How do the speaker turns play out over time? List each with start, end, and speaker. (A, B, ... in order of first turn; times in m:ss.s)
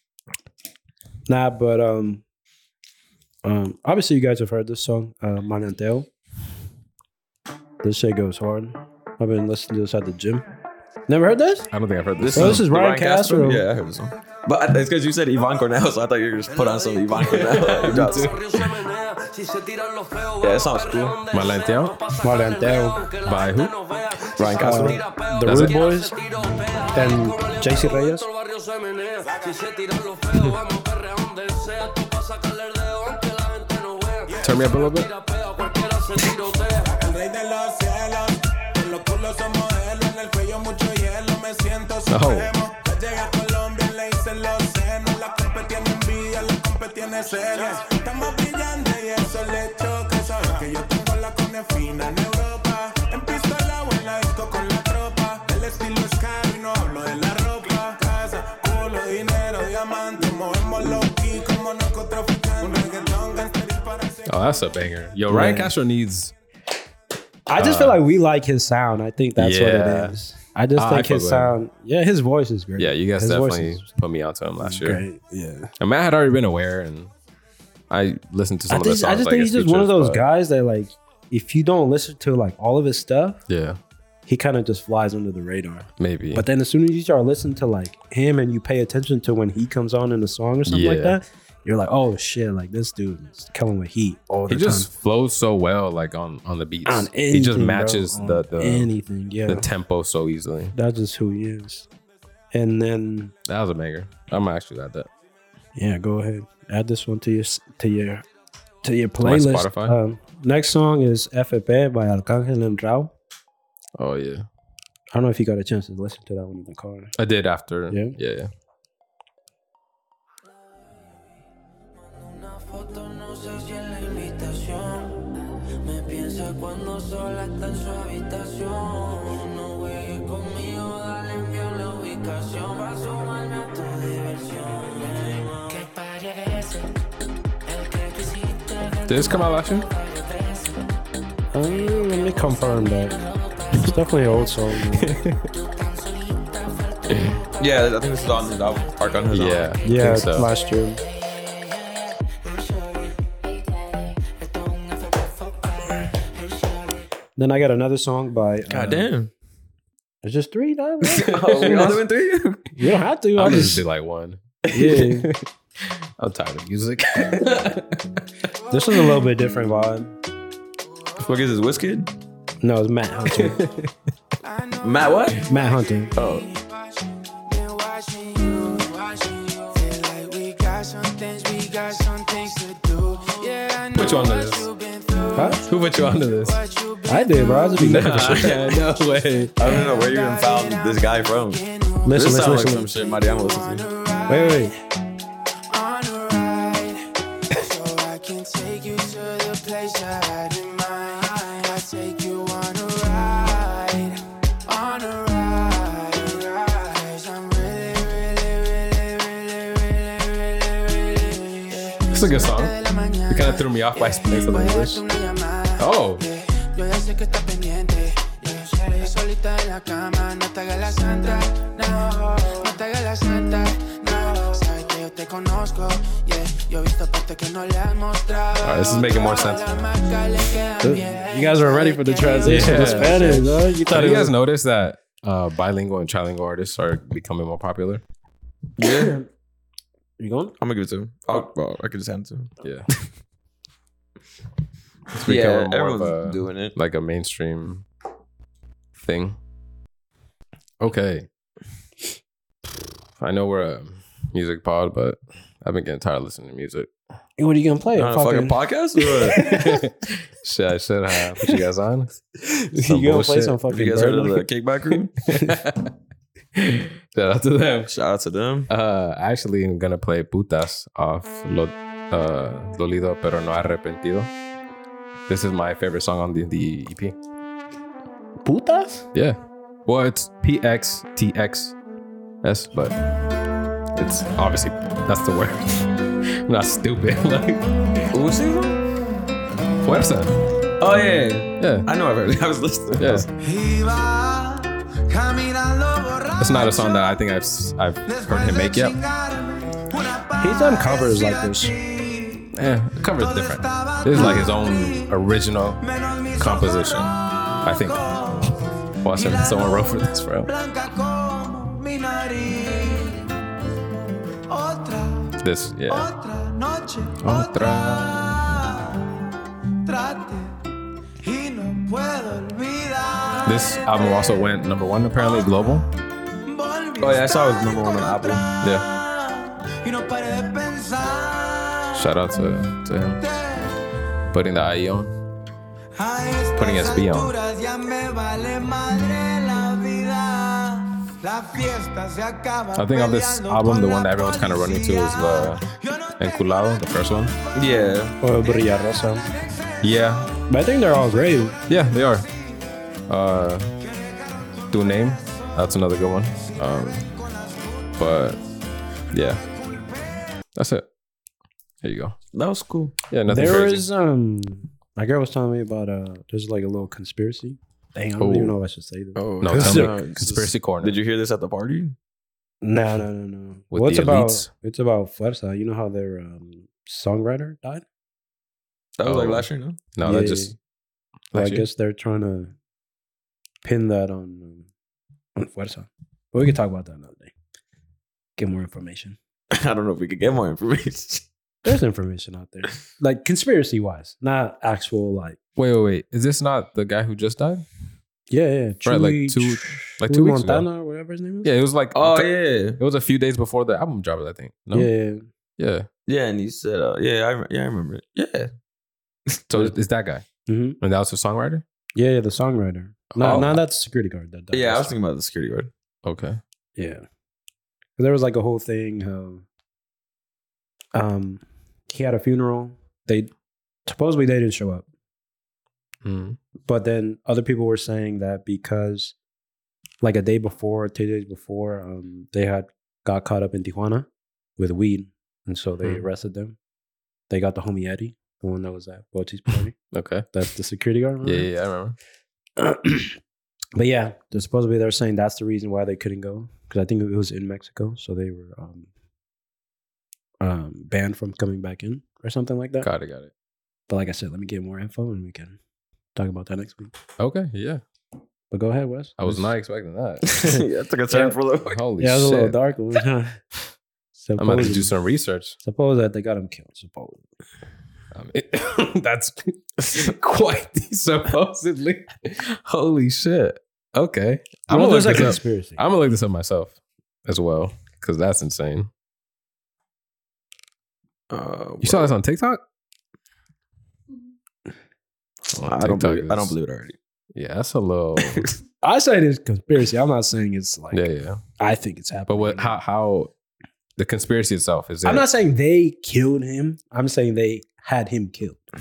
0:01.3-0:02.2 A
0:03.4-0:06.1 A
0:07.8-0:10.5 A
0:11.1-0:11.7 A
0:11.7-0:12.7 B
0:12.2-0:18.4 C
0:12.4-0:13.6 A
0:16.6-0:17.2 D
0:17.2-0:18.8 B
0:17.8-0:37.0 D
0:20.4-0:21.2 C
0:21.3-0:22.0 B
0:22.2-0:23.0 A
0:23.2-0:23.8 B
0:24.4-0:25.0 C
0:24.6-0:26.2 A
0:25.4-0:25.8 B
0:26.9-0:28.3 A
0:34.4-0:35.1 B
0:37.1-0:38.2 E
0:38.8-0:42.0 E
0:42.1-0:42.6 B
0:42.7-1:04.1 E
1:04.3-1:06.3 B
1:05.3-1:05.7 A
1:07.5-1:13.9 A
1:07.6-1:08.0 B
1:09.4-1:10.2 B
1:10.8-1:11.6 B
1:12.8-1:15.0 B
1:14.6-1:15.7 A
1:15.8-1:17.1 B
1:17.9-1:20.2 B
1:18.7-1:23.4 A
1:23.5-1:23.8 B
1:24.3-1:34.9 A
1:26.0-1:26.5 B
1:30.7-1:31.2 B
1:34.5-1:38.9 B
1:36.9-1:39.7 A
1:39.5-1:40.8 B
1:40.7-1:41.9 A
1:42.5-1:43.3 A
1:43.5-1:45.1 B
1:45.8-1:48.2 A
1:48.8-1:53.1 A
1:49.2-1:50.0 B
1:54.0-1:54.5 B
1:55.1-1:57.1 A
1:57.2-1:58.5 B
1:57.9-1:58.2 A
2:00.6-2:01.4 D
2:02.0-2:17.0 D
2:17.7-2:20.9 D
2:19.1-2:19.9 B
2:21.5-2:23.2 A
2:21.8-2:23.9 D
2:23.7-2:25.2 A
2:25.0-2:25.5 B
2:25.4-2:29.3 D
2:27.1-2:27.4 B
2:27.6-2:29.7 C
2:29.3-2:30.5 B
2:29.8-2:31.0 A
2:31.2-2:37.0 D
2:37.4-2:39.1 A
2:38.7-2:39.3 C
2:40.2-2:42.0 A
2:41.1-2:42.7 C
2:41.2-2:42.0 B
2:42.7-2:43.8 A
2:43.4-2:44.4 B
2:44.7-2:45.0 C
2:44.7-2:45.3 A
2:45.0-2:48.2 B
2:48.7-2:50.1 A
2:51.2-2:52.1 C
2:52.6-2:53.6 A
2:53.3-2:53.9 B
2:54.8-2:55.4 C
2:55.4-2:56.2 A
2:56.2-2:56.5 C
2:57.5-3:05.6 D
3:03.9-3:04.7 B
3:05.3-3:05.6 A
3:05.6-3:06.6 B
3:06.5-3:07.4 D
3:07.1-3:08.5 A
3:07.8-3:09.7 B
3:08.1-3:08.8 C
3:09.6-3:13.9 C
3:10.4-3:10.8 D
3:11.6-3:12.0 D
3:12.0-3:13.0 A
3:13.9-3:14.3 D
3:14.3-3:14.8 A
3:16.6-3:16.9 D
3:18.0-3:24.1 D
3:24.7-3:53.1 D
3:32.1-3:35.0 B
3:35.8-3:36.3 B
3:48.6-3:49.9 B
3:50.8-3:54.3 A
3:52.4-3:58.0 B
3:58.8-3:59.2 C
3:58.8-3:59.3 A
4:00.2-4:00.6 A
4:00.6-4:02.5 C
4:02.6-4:02.9 B
4:05.1-4:07.9 B
4:05.3-4:06.8 C
4:09.0-4:09.4 B
4:10.8-4:11.3 B
4:13.2-4:16.9 B
4:17.4-4:19.8 A
4:18.0-4:19.5 C
4:19.4-4:22.2 B
4:22.4-4:24.4 A
4:22.8-4:23.6 B
4:23.7-4:25.2 C
4:25.3-4:25.9 B
4:26.6-4:27.9 B
4:27.9-4:28.7 C
4:28.7-4:34.3 B
4:35.3-4:37.2 B
4:38.4-4:39.1 A
4:39.1-4:41.8 B
4:42.4-4:43.0 B
4:44.0-4:48.0 B
4:48.1-4:48.8 C
4:49.8-4:50.4 B
4:50.8-4:53.3 C
4:51.6-4:51.9 B
4:53.0-4:53.3 B
4:53.4-4:57.1 E
4:56.4-4:59.0 B
4:58.1-5:02.5 E
5:00.4-5:01.8 A
5:02.5-5:05.8 B
5:03.2-5:05.1 E
5:04.2-5:04.4 A
5:05.8-5:13.4 E
5:06.4-5:07.1 B
5:07.6-5:08.5 B
5:09.0-5:10.5 B
5:14.5-5:15.4 E
5:15.4-5:16.1 B
5:15.9-5:20.7 E
5:17.2-5:18.7 B
5:21.2-5:24.3 E
5:23.4-5:25.9 B
5:26.4-5:32.0 E
5:27.0-5:28.4 C
5:28.6-5:28.9 B
5:31.9-5:33.2 B
5:33.2-5:33.8 E
5:34.3-5:35.1 B
5:36.0-5:46.8 E
5:36.6-5:37.3 B
5:42.7-5:45.6 B
5:46.2-5:47.4 B
5:47.5-5:48.2 C
5:48.2-5:49.3 A
5:49.3-5:50.3 E
5:49.8-5:50.3 B
5:50.5-5:51.6 A
5:51.3-5:52.3 E
5:51.7-5:52.3 B
5:53.1-5:53.7 B
5:54.0-5:55.4 E
5:54.7-5:57.1 B
5:56.4-5:58.0 E
5:58.0-5:58.4 B
5:59.1-5:59.4 B
5:59.8-6:00.2 E
6:00.6-6:00.9 B
6:01.8-6:02.2 B
6:02.3-6:03.0 C
6:03.1-6:03.9 B
6:03.3-6:10.0 A
6:08.2-6:08.6 B
6:09.2-6:12.0 C
6:09.4-6:11.0 B
6:12.6-6:17.8 A
6:13.7-6:14.5 B
6:19.0-6:19.8 C
6:19.0-6:20.6 B
6:20.0-6:20.6 A
6:21.3-6:21.7 B
6:21.4-6:22.5 A
6:23.6-6:24.7 A
6:25.4-6:27.3 A
6:28.4-6:29.2 A
6:29.5-6:31.2 C
6:31.6-6:35.4 A
6:35.6-6:37.6 B
6:38.3-6:41.5 A
6:38.8-6:40.7 B
6:41.4-6:44.9 B
6:42.0-6:42.8 C
6:44.7-6:45.2 A
6:45.6-6:45.9 B
6:46.1-6:48.5 C
6:49.5-6:50.2 B
6:50.5-6:50.8 A
6:50.8-6:51.6 B
6:52.0-6:54.9 A
6:53.1-6:53.6 B
6:54.5-6:55.7 C
6:56.0-6:56.4 B
6:56.8-6:57.0 A
6:58.0-6:59.4 A
7:00.9-7:03.3 A
7:03.9-7:04.9 A
7:06.0-7:06.4 B
7:06.7-7:09.2 A
7:10.0-7:14.1 A
7:14.6-7:16.6 A
7:17.3-7:19.8 A
7:19.9-7:20.3 B
7:20.3-7:21.5 A
7:21.2-7:22.0 B
7:22.6-7:23.2 A
7:23.8-7:28.9 A
7:30.4-7:32.9 A
7:32.8-7:33.3 B
7:33.9-7:35.6 A
7:36.2-7:36.9 A
7:37.2-7:37.8 B
7:38.5-7:39.5 A
7:39.2-7:40.5 B
7:40.3-7:41.8 C
7:41.6-7:42.6 B
7:42.0-7:43.4 A
7:44.2-7:44.9 A
7:44.4-7:45.6 B
7:45.6-7:47.3 A
7:48.1-7:58.9 B
7:54.7-7:55.8 A
8:01.3-8:02.1 C
8:01.8-8:02.6 B
8:05.5-8:06.6 B
8:05.6-8:07.0 C
8:07.4-8:08.5 B
8:08.2-8:08.6 C
8:08.8-8:11.1 A
8:10.9-8:11.4 B
8:11.6-8:12.8 A
8:12.3-8:13.3 B
8:14.0-8:15.3 B
8:15.0-8:18.6 A